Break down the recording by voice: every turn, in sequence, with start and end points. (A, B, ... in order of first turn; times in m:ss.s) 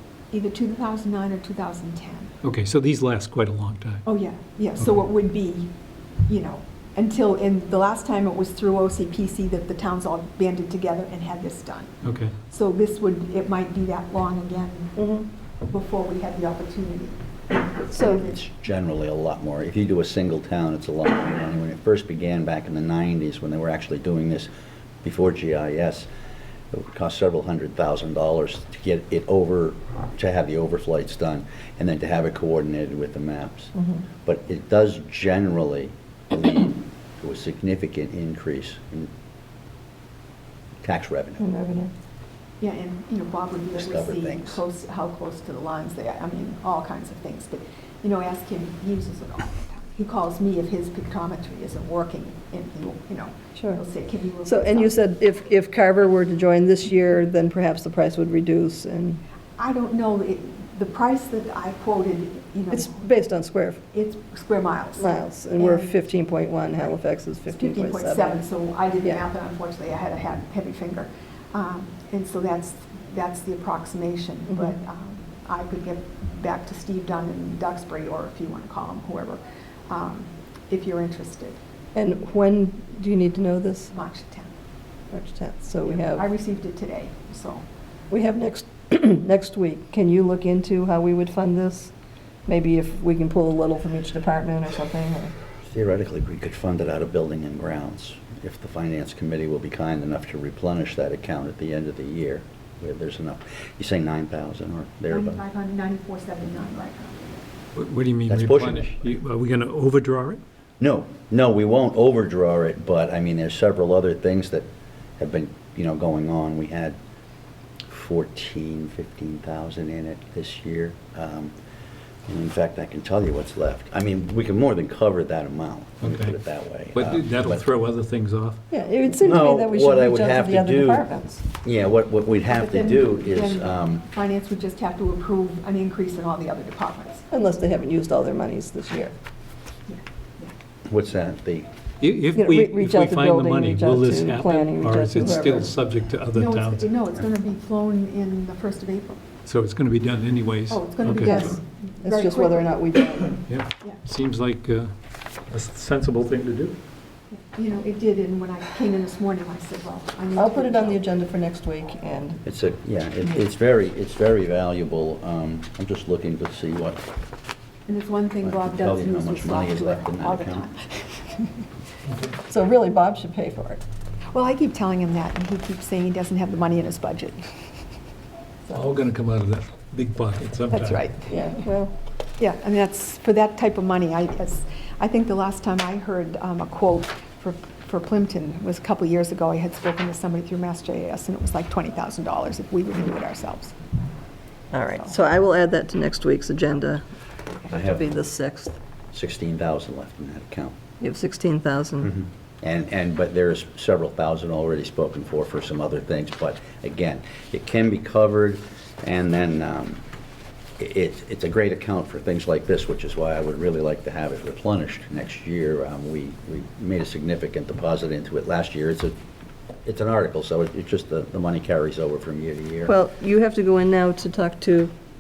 0:00.3-0:02.4 A
0:02.4-0:04.0 B
0:04.1-0:05.7 A
0:06.3-0:12.0 A
0:12.0-0:12.3 B
0:12.5-0:15.0 A
0:15.0-0:15.3 C
0:15.7-0:17.2 A
0:17.8-0:18.4 A
0:17.9-0:18.2 C
0:18.1-0:24.5 D
0:25.0-0:26.1 D
0:26.7-0:39.1 D
0:33.8-0:34.1 C
0:40.8-0:41.5 D
0:41.4-0:41.9 C
0:42.6-0:55.0 A
0:43.7-0:44.6 D
0:54.4-0:59.2 C
0:59.6-1:03.1 A
1:02.7-1:03.8 C
1:03.9-1:05.9 A
1:05.0-1:08.4 C
1:07.5-1:21.6 A
1:14.5-1:14.8 C
1:22.0-1:23.9 C
1:23.9-1:24.6 A
1:25.1-1:26.2 C
1:25.8-1:27.7 A
1:28.1-1:31.9 C
1:32.5-1:35.4 C
1:35.6-1:45.4 D
1:45.1-1:47.5 A
1:47.8-1:50.4 B
1:48.3-1:49.0 D
1:50.8-1:54.7 D
1:55.2-1:57.0 D
1:57.9-2:01.5 D
2:02.3-2:07.6 D
2:06.0-2:06.4 B
2:06.9-2:08.6 B
2:08.7-2:11.4 C
2:09.2-2:11.0 D
2:11.6-2:14.0 D
2:12.5-2:17.3 A
2:17.3-2:19.2 C
2:19.9-2:20.5 A
2:20.9-2:21.7 D
2:22.0-2:26.9 B
2:22.4-2:25.7 C
2:26.3-2:29.2 A
2:29.5-2:31.5 B
2:30.7-2:32.8 A
2:31.2-2:33.4 C
2:33.5-2:34.9 B
2:35.5-2:36.8 B
2:37.3-2:41.0 A
2:40.4-2:42.4 C
2:42.4-2:47.0 D
2:47.9-2:51.6 A
2:48.4-2:50.7 D
2:52.5-2:53.8 C
2:54.3-2:57.6 A
2:58.7-3:01.1 B
3:00.7-3:01.7 A
3:01.3-3:02.0 C
3:02.4-3:13.8 A
3:14.7-3:17.0 C
3:17.7-3:18.8 C
3:17.7-3:18.1 D
3:19.1-3:20.8 D
3:21.0-3:22.2 C
3:22.0-3:30.0 D
3:30.8-3:39.2 D
3:39.8-3:42.9 D
3:42.9-3:44.9 C